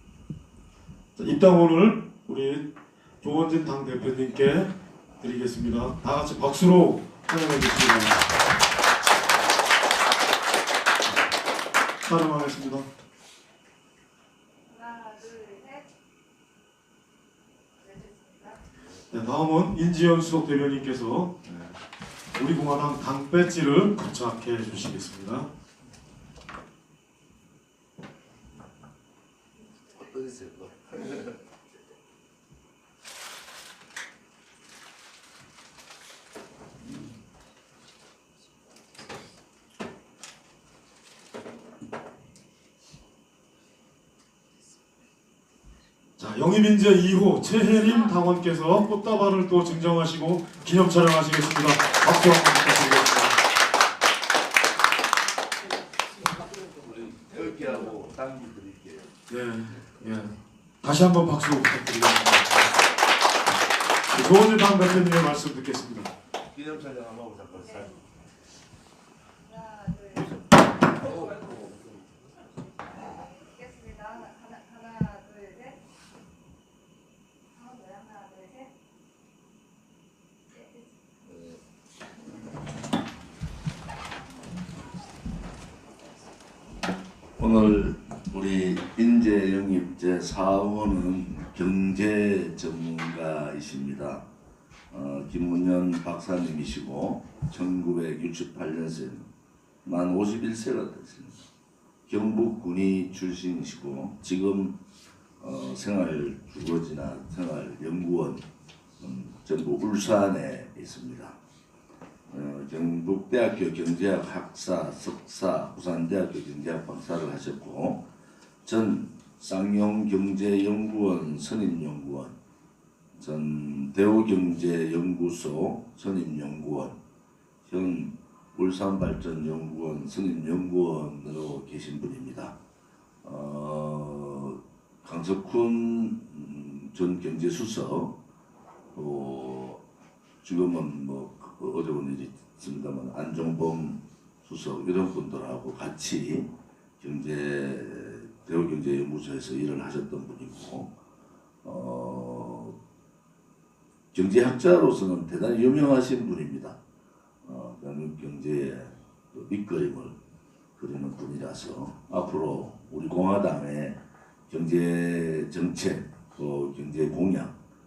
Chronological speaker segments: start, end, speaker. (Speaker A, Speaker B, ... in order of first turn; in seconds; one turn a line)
Speaker A: 1.1-2.7
Speaker A: 3.2-8.2
Speaker A: 12.0-12.9
Speaker B: 14.7-15.8
Speaker B: 17.8-18.6
Speaker A: 19.1-21.4
Speaker A: 22.4-25.5
Speaker C: 29.9-31.3
Speaker A: 46.2-53.4
Speaker B: 56.5-59.0
Speaker C: 57.5-58.9
Speaker A: 59.3-62.7
Speaker A: 64.1-66.1
Speaker C: 66.5-67.5
Speaker B: 69.5-70.3
Speaker B: 71.0-71.8
Speaker B: 73.6-75.8
Speaker B: 77.6-78.7
Speaker C: 87.4-94.3
Speaker C: 94.9-99.3
Speaker C: 99.8-101.4
Speaker C: 102.1-104.8
Speaker C: 105.4-108.4
Speaker C: 109.0-111.4
Speaker C: 112.3-118.0
Speaker C: 118.6-122.3
Speaker C: 123.1-127.0
Speaker C: 127.6-132.6
Speaker C: 133.2-138.2
Speaker C: 138.9-139.8
Speaker C: 140.4-150.9
Speaker C: 151.6-152.8
Speaker C: 154.1-156.8
Speaker C: 157.4-160.2
Speaker C: 160.8-167.5